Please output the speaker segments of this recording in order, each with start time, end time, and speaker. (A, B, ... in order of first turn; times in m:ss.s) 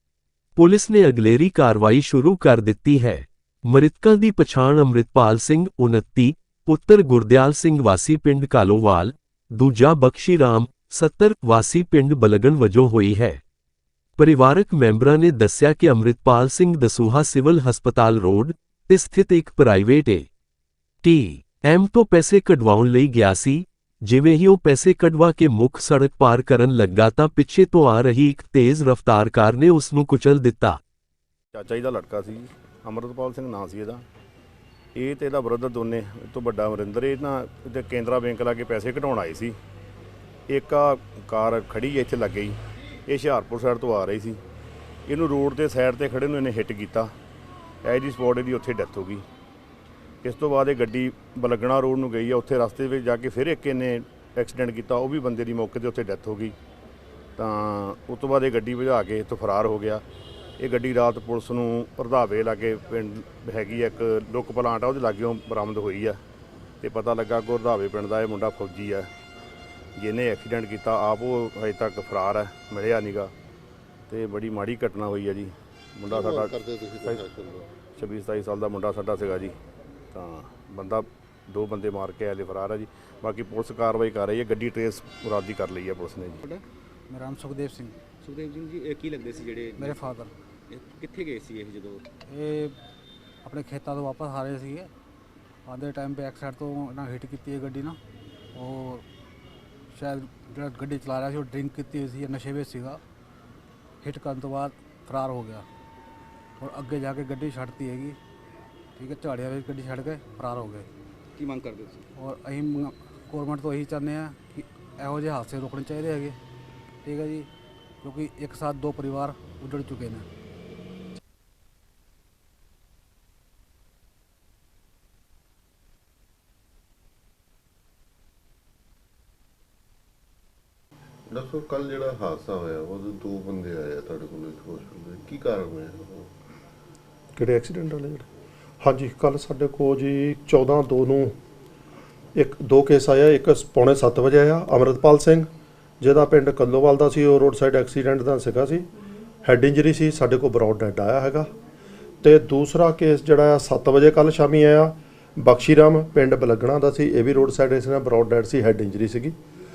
0:00.6-0:13.4 A
0:14.2-0:20.3 A
0:21.0-0:30.8 A
0:31.5-0:34.0 B
0:34.9-0:39.6 B
0:40.5-0:42.6 B
0:43.1-0:44.4 B
0:45.1-0:47.1 B
0:47.8-0:49.2 B
0:50.2-0:56.6 B
0:57.4-1:00.0 B
1:00.6-1:06.2 B
1:06.8-1:09.1 B
1:10.0-1:13.3 B
1:14.1-1:17.3 B
1:16.1-1:17.7 C
1:18.0-1:19.6 B
1:20.1-1:26.4 B
1:26.5-1:28.0 D
1:28.2-1:30.1 E
1:29.8-1:30.3 D
1:30.7-1:32.0 E
1:32.2-1:32.8 D
1:33.4-1:34.9 D
1:35.7-1:38.0 D
1:38.6-1:39.0 D
1:39.9-1:43.0 D
1:44.0-1:45.7 D
1:46.6-1:48.2 D
1:49.0-1:50.9 D
1:51.4-1:52.0 E
1:52.2-1:56.4 D
1:57.0-1:57.5 D
1:58.0-2:00.3 D
2:11.3-2:16.3 C
2:17.4-2:18.3 F
2:18.8-2:21.3 F
2:22.3-2:25.5 F
2:26.0-2:28.9 F
2:29.4-2:31.5 F
2:32.2-2:39.3 F